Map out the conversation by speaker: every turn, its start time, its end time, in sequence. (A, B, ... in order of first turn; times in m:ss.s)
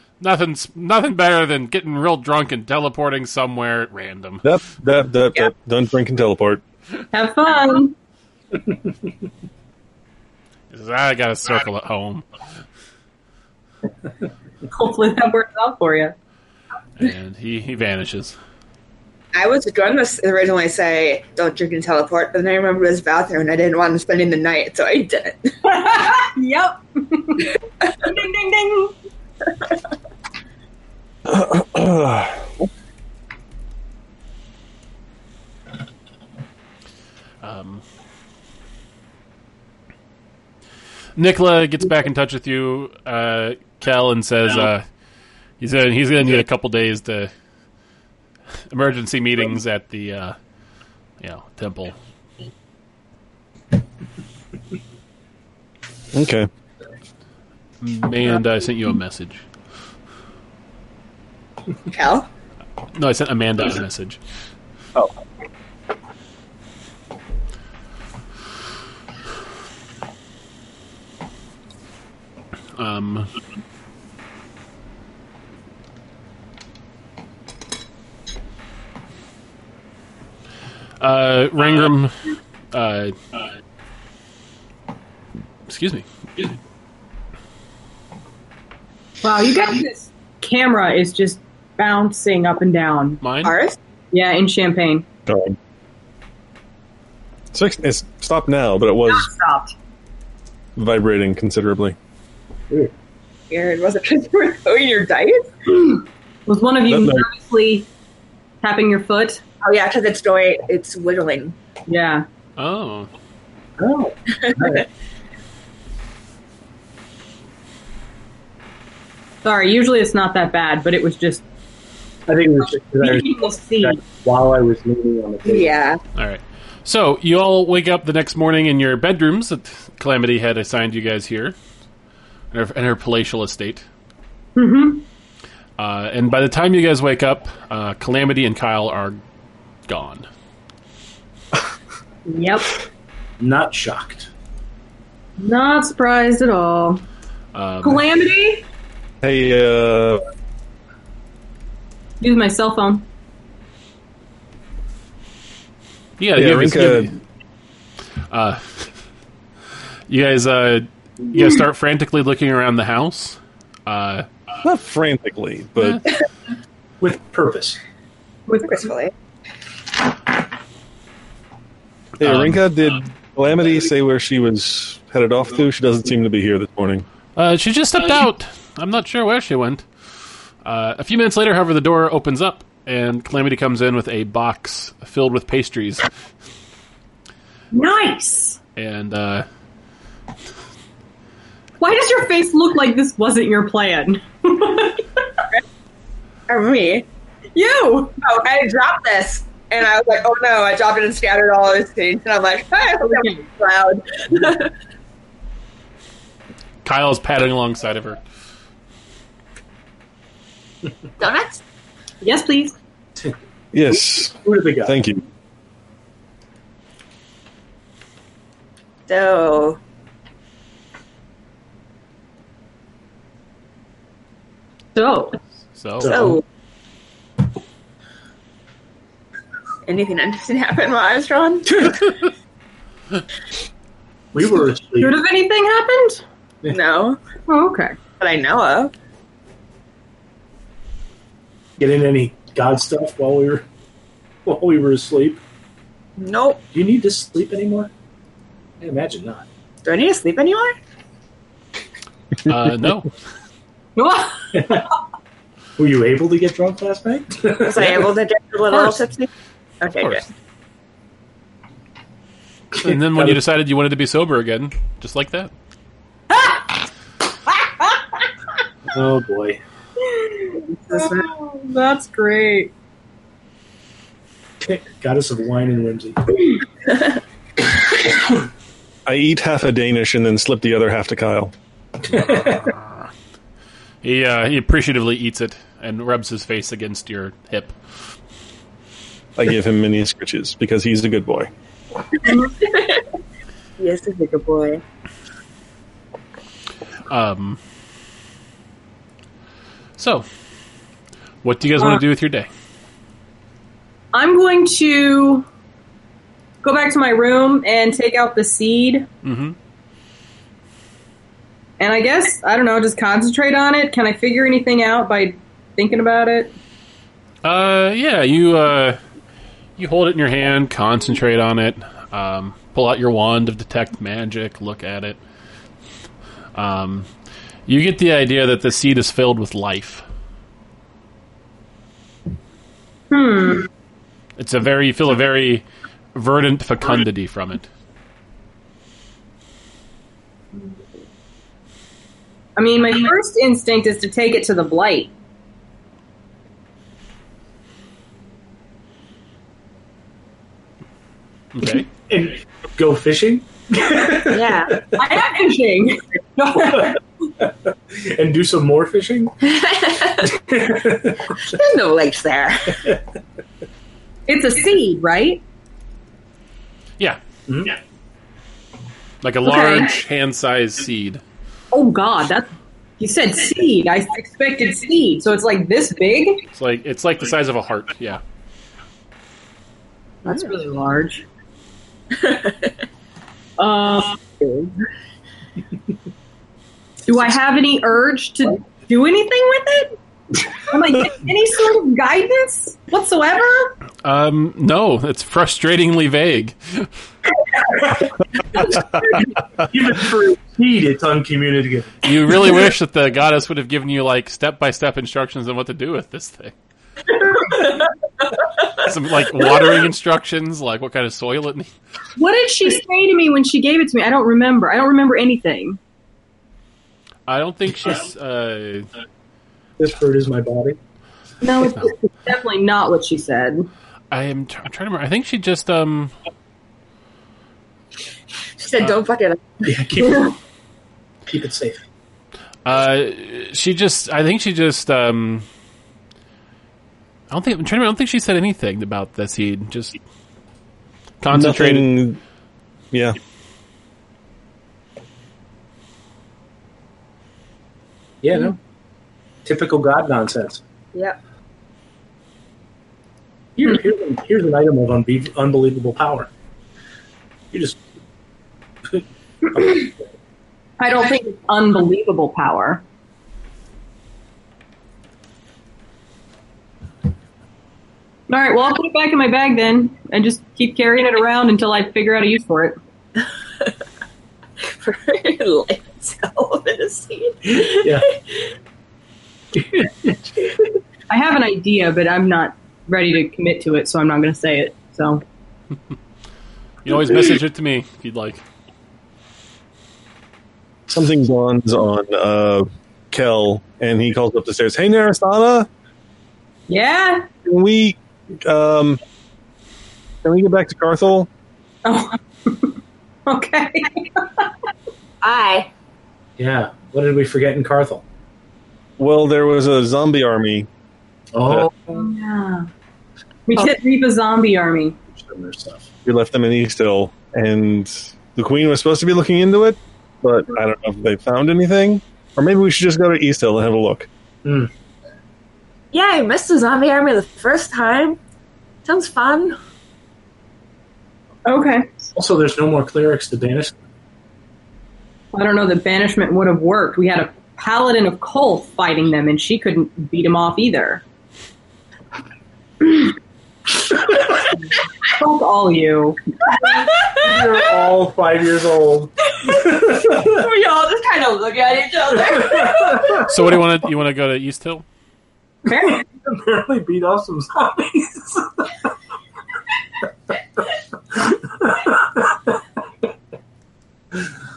0:00.2-0:04.4 A
0:04.4-0:06.6 B
0:07.1-0:07.9 C
0:10.7-0:12.2 A
0:14.7-0:16.1 C
0:17.0-0:18.3 A
0:19.3-0:25.5 D
0:25.6-0:28.9 C
0:31.2-0:32.4 B
0:37.4-0:37.8 A
0:41.2-0:44.8 A
0:45.6-0:47.3 A
0:48.7-0:50.4 A
0:51.2-0:52.0 A
0:56.1-0:56.5 B
0:57.8-0:59.4 A
1:01.9-1:02.3 D
1:02.9-1:04.2 A
1:12.8-1:13.3 A
1:21.0-1:23.2 A
1:25.7-1:26.5 A
1:29.2-1:33.2 C
1:33.2-1:33.5 A
1:33.4-1:33.8 D
1:34.1-1:35.0 C
1:35.3-1:35.6 B
1:37.5-1:39.3 B
1:39.1-1:39.7 C
1:40.8-1:42.0 B
1:43.5-1:45.8 D
1:46.5-1:47.9 C
1:46.9-1:47.2 B
1:48.6-1:49.4 C
1:49.6-1:51.6 D
1:51.9-1:52.2 C
1:52.6-1:53.1 A
1:53.8-1:54.8 E
1:54.4-1:54.7 D
1:59.4-2:01.4 C
2:02.3-2:05.7 E
2:03.0-2:04.0 C
2:05.4-2:06.0 D
2:06.2-2:11.5 A
2:12.5-2:13.8 A
2:14.6-2:15.0 C
2:15.8-2:19.2 A
2:19.9-2:20.3 A
2:22.2-2:22.7 C
2:23.4-2:24.3 E
2:25.4-2:27.0 C
2:27.5-2:28.0 A
2:27.8-2:28.6 C
2:29.2-2:30.2 B
2:32.2-2:33.0 C
2:36.2-2:37.2 A
2:36.4-2:37.1 B
2:38.3-2:38.8 A
2:40.1-2:44.2 A
2:44.6-2:46.0 B
2:47.0-2:47.8 E
2:48.5-2:48.8 C
2:48.6-2:49.1 D
2:52.2-2:57.0 B
2:52.2-2:52.6 A
2:57.4-2:59.8 A
3:00.6-3:06.1 A
3:07.7-3:08.6 C
3:08.8-3:09.4 A
3:11.8-3:15.2 C
3:16.5-3:17.0 D
3:17.5-3:18.1 C
3:18.2-3:24.7 D
3:23.1-3:23.4 C
3:26.8-3:28.2 A
3:31.2-3:31.6 D
3:32.2-3:32.7 C
3:33.7-3:35.2 B
3:34.4-3:35.0 E
3:39.1-3:39.8 D
3:44.9-3:45.4 C
3:45.8-3:46.1 A
3:46.0-3:46.4 E
3:46.0-3:46.4 D
3:49.9-3:51.9 D
3:54.3-3:55.2 E
3:55.0-3:56.2 C
3:56.7-3:57.2 D
3:57.5-3:58.0 C
3:58.2-3:58.9 D
4:01.8-4:03.6 E
4:04.4-4:05.4 E
4:06.2-4:06.6 D
4:06.7-4:07.9 E
4:08.8-4:09.4 E
4:09.8-4:10.8 D
4:12.4-4:13.1 A
4:14.0-4:14.8 C
4:14.5-4:14.8 E
4:15.8-4:18.1 E
4:17.6-4:19.3 D
4:19.8-4:20.2 D
4:22.7-4:23.4 E
4:22.8-4:25.5 A
4:26.3-4:26.6 C
4:28.9-4:29.6 E
4:30.0-4:32.7 C
4:30.6-4:31.3 D
4:34.6-4:36.4 E
4:39.0-4:41.5 B
4:42.1-4:42.6 E
4:42.1-4:43.1 A
4:44.0-4:47.8 A
4:49.4-4:51.5 B
4:52.3-4:53.0 D
4:53.8-4:54.8 D
4:57.1-4:57.6 A
5:00.0-5:00.2 A
5:01.4-5:02.5 A
5:04.1-5:05.4 C
5:06.6-5:09.1 C
5:09.2-5:09.6 A
5:11.8-5:16.5 C
5:17.4-5:19.0 A
5:19.8-5:25.2 A
5:26.5-5:27.1 A
5:27.7-5:30.0 A
5:33.1-5:33.7 C
5:34.4-5:37.7 A
5:42.6-5:45.1 C
5:51.5-5:51.9 A
5:52.0-5:55.0 E
5:54.2-5:54.8 D
5:55.0-5:57.0 C
5:56.8-5:59.3 E
5:59.4-6:00.3 D
6:00.3-6:01.3 E
6:01.4-6:02.8 D
6:04.3-6:05.4 C
6:07.5-6:07.7 E
6:09.2-6:11.2 A
6:09.4-6:09.9 C
6:11.7-6:12.5 C
6:13.0-6:16.4 C
6:16.5-6:18.2 A
6:20.2-6:21.2 C
6:22.2-6:22.7 D
6:23.6-6:24.7 C
6:27.1-6:29.9 C
6:30.6-6:33.8 C
6:34.0-6:36.9 A
6:39.6-6:42.0 E
6:42.0-6:46.5 A
6:48.8-6:51.7 A
6:52.2-6:55.8 C
6:57.3-6:58.9 A
6:59.8-7:00.8 E
7:01.4-7:03.7 C
7:04.1-7:06.1 A
7:08.6-7:09.6 D
7:09.6-7:10.3 E
7:11.3-7:11.8 E
7:12.6-7:15.4 A
7:17.3-7:20.0 A
7:21.2-7:21.9 A
7:21.3-7:22.2 B
7:22.9-7:23.2 B
7:28.2-7:28.6 E
7:29.4-7:30.6 E
7:33.6-7:36.3 E
7:37.5-7:37.8 E
7:39.5-7:39.9 E
7:40.8-7:42.8 C
7:48.3-7:52.8 C
7:54.7-7:58.1 D
7:57.8-7:58.0 E
7:59.5-8:00.5 E
8:01.1-8:05.2 C
8:06.8-8:08.4 A
8:10.9-8:15.7 B
8:16.7-8:17.3 C
8:17.4-8:19.0 B
8:20.2-8:21.3 B
8:21.8-8:24.5 C
8:25.2-8:25.7 D
8:26.4-8:28.0 E
8:29.0-8:30.7 B
8:31.3-8:31.9 E
8:31.9-8:32.7 C
8:33.5-8:35.0 C
8:35.1-8:35.9 E
8:36.0-8:44.1 B
8:44.4-8:44.7 E
8:45.9-8:48.2 D
8:48.8-8:49.6 D
8:51.4-8:52.0 C
8:52.1-8:53.8 E
8:55.3-9:01.0 C
9:02.8-9:03.1 C
9:05.1-9:06.2 C
9:07.0-9:07.6 D
9:07.1-9:10.4 E
9:09.4-9:13.3 D
9:12.4-9:13.3 E
9:13.2-9:14.8 A
9:15.7-9:16.0 C
9:16.1-9:18.7 E
9:21.1-9:22.4 E